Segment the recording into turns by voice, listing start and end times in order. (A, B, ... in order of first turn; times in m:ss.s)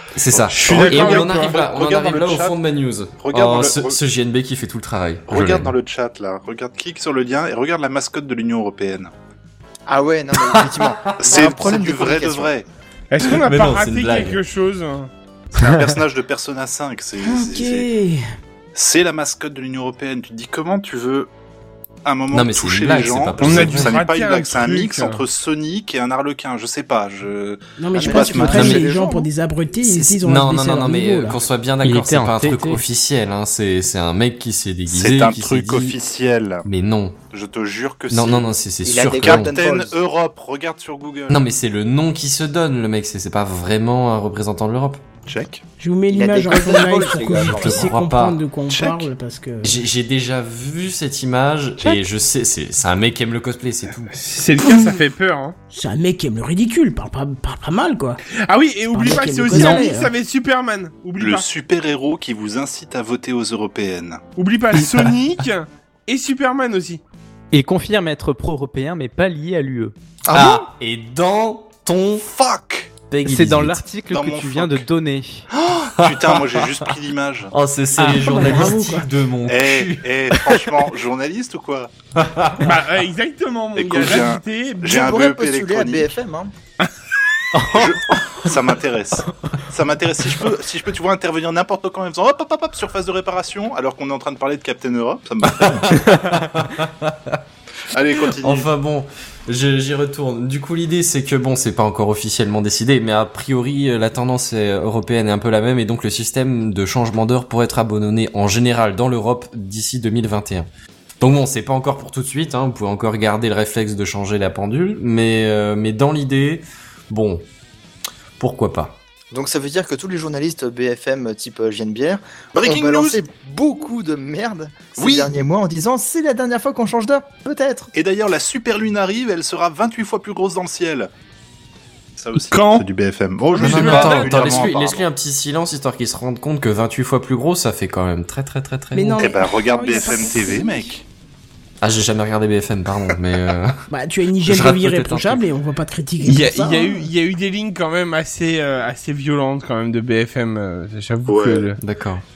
0:00.2-0:05.8 A
0:00.3-0:02.6 B
0:00.5-0:01.6 C
0:03.2-0:04.0 B
0:05.3-0:09.1 B
0:09.9-0:12.5 D
0:10.4-0:11.6 A
0:11.2-0:12.7 B
0:13.1-0:15.1 C
0:13.2-0:14.4 A
0:15.6-0:17.9 B
0:17.2-0:18.2 E
0:18.7-0:21.3 B
0:22.0-0:28.8 B
0:22.3-0:24.0 A
0:23.4-0:25.2 C
0:27.8-0:31.4 E
0:28.0-0:29.3 D
0:28.5-0:28.9 A
0:29.8-0:36.0 A
0:31.8-0:32.8 F
0:34.9-0:36.7 B
0:36.6-0:37.2 A
0:37.3-0:38.5 B
0:38.1-0:39.6 A
0:38.8-0:40.0 D
0:39.1-0:41.4 B
0:41.3-0:45.0 A
0:45.3-0:45.6 B
0:45.8-0:49.8 E
0:46.1-0:47.9 D
0:47.3-0:48.4 A
0:48.7-0:49.1 B
0:49.6-0:54.2 A
0:54.1-0:55.6 C
0:55.7-0:58.2 E
0:58.4-1:01.5 C
0:58.9-1:00.1 E
0:59.5-0:59.8 F
1:01.2-1:04.2 B
1:04.4-1:07.0 C
1:07.5-1:09.9 F
1:10.3-1:10.7 B
1:10.3-1:12.3 A
1:12.2-1:12.9 B
1:13.1-1:13.9 A
1:13.2-1:15.5 F
1:14.1-1:14.9 B
1:15.6-1:16.8 A
1:15.9-1:17.5 B
1:17.5-1:20.6 A
1:18.0-1:18.8 F
1:18.1-1:19.1 E
1:19.5-1:21.9 B
1:22.2-1:22.8 A
1:22.6-1:25.0 C
1:23.8-1:26.1 B
1:24.8-1:26.5 D
1:27.7-1:36.1 B
1:35.5-1:37.4 A
1:37.9-1:38.7 B
1:38.2-1:50.7 A
1:51.2-1:57.5 A
1:58.4-1:59.0 A
1:59.3-2:07.9 D
2:02.6-2:03.2 B
2:05.0-2:05.3 B
2:07.9-2:11.1 B
2:12.2-2:15.1 B
2:12.5-2:12.9 C
2:13.5-2:14.7 C
2:13.6-2:19.4 A
2:18.9-2:20.9 E
2:19.2-2:21.0 B
2:21.8-2:23.8 A
2:23.9-2:27.1 E
2:24.4-2:25.4 A
2:26.2-2:31.8 C
2:31.3-2:31.7 B
2:31.8-2:32.2 A